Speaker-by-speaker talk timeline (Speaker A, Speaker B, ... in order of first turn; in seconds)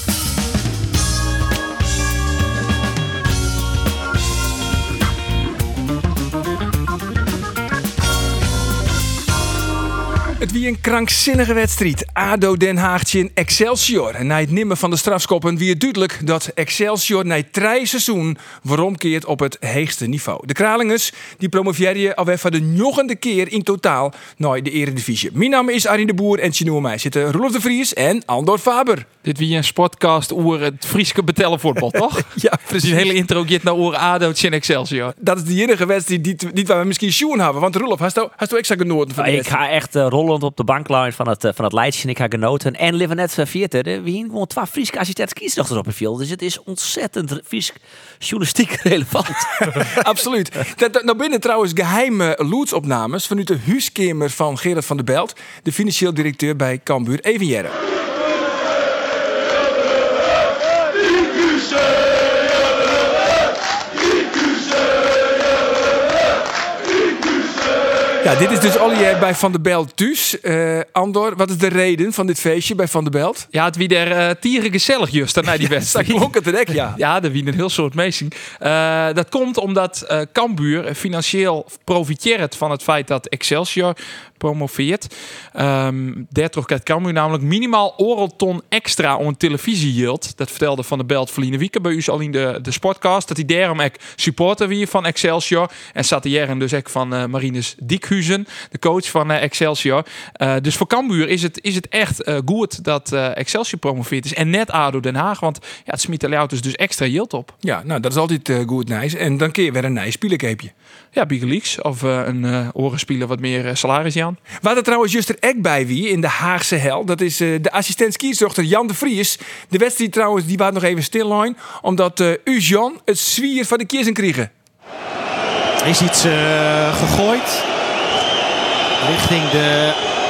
Speaker A: 10.4-29.1, 32.3-33.1, 35.2-39.5, 49.7-57.8, 68.2-73.5, 75.5-77.0, 107.6-110.7, 114.6-124.5
Speaker B: 29.2-35.1, 73.5-107.5, 111.1-114.4
Speaker C: 39.2-49.9
Speaker D: 125.8-127.7, 129.0-130.0